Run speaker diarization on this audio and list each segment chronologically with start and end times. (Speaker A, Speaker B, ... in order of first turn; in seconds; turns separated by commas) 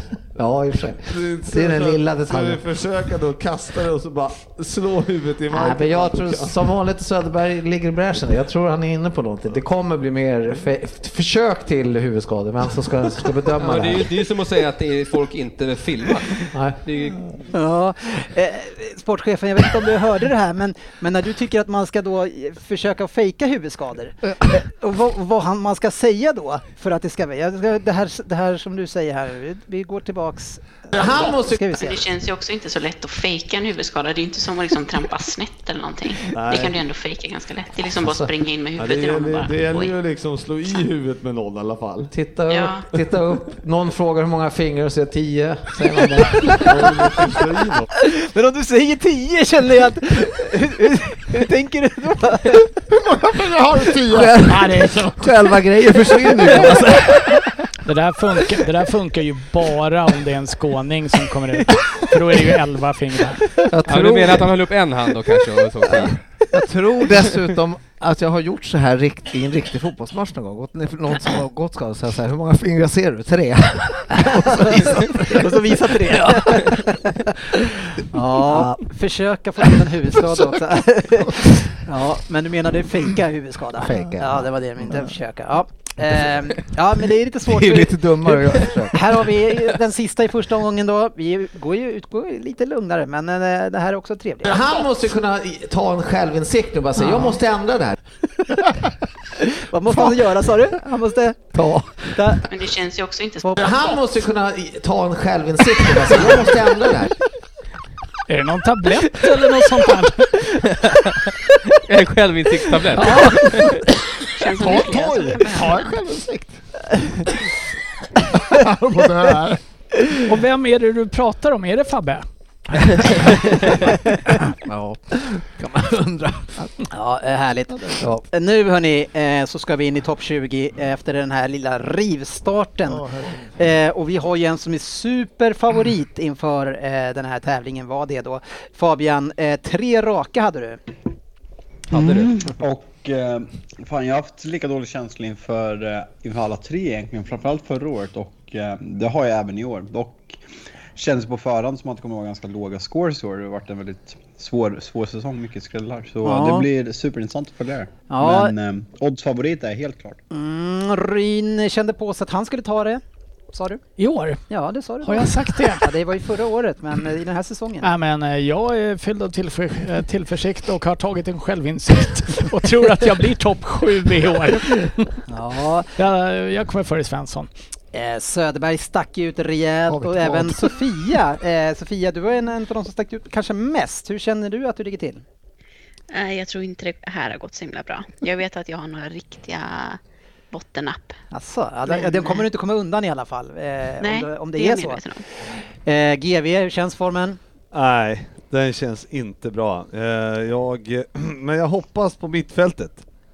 Speaker A: 0.3-2.6, Speaker B: 1.1-6.6, Speaker A: 5.5-14.1, Speaker C: 13.6-17.4, Speaker A: 16.5-16.8, Speaker D: 17.5-32.0, Speaker A: 30.9-31.7, Speaker E: 31.8-39.9, Speaker B: 36.3-36.8, Speaker A: 38.0-38.3, Speaker B: 38.8-42.1, Speaker A: 42.1-47.1, Speaker E: 42.5-42.9, Speaker B: 46.5-47.9, Speaker D: 48.0-52.7, Speaker F: 52.9-55.3, Speaker A: 54.0-57.4, Speaker G: 57.9-63.5, Speaker A: 63.6-64.5, Speaker C: 63.9-66.2, Speaker A: 65.9-76.8, Speaker D: 74.2-77.3, Speaker D: 78.1-94.6, Speaker A: 78.1-78.8, Speaker A: 83.8-84.5, Speaker A: 87.5-89.2, Speaker A: 94.5-98.0, Speaker D: 99.4-101.5, Speaker A: 99.9-100.2, Speaker A: 101.5-102.2, Speaker D: 102.1-102.5, Speaker E: 102.5-103.6, Speaker D: 103.4-103.7, Speaker A: 103.6-107.1, Speaker G: 108.3-110.4, Speaker C: 111.7-113.8, Speaker F: 113.2-113.8, Speaker E: 114.4-115.9, Speaker F: 114.6-116.6, Speaker F: 118.3-119.6, Speaker G: 120.3-122.3, Speaker A: 123.2-123.9, Speaker A: 124.6-126.7, Speaker D: 126.9-140.8, Speaker F: 132.9-133.4, Speaker C: 141.9-142.4, Speaker H: 142.0-150.4, Speaker H: 151.0-160.2, Speaker D: 156.2-156.7, Speaker D: 158.1-158.5, Speaker D: 160.3-163.8, Speaker G: 164.0-164.4, Speaker D: 164.5-167.9, Speaker G: 165.0-165.9, Speaker G: 167.8-175.2, Speaker D: 175.3-175.9, Speaker G: 176.0-177.5, Speaker D: 177.9-185.2, Speaker F: 179.9-180.7, Speaker E: 186.1-190.0, Speaker E: 190.5-191.2, Speaker D: 191.3-195.0, Speaker E: 192.1-192.4, Speaker E: 194.0-195.2, Speaker D: 195.8-197.4, Speaker B: 197.7-203.1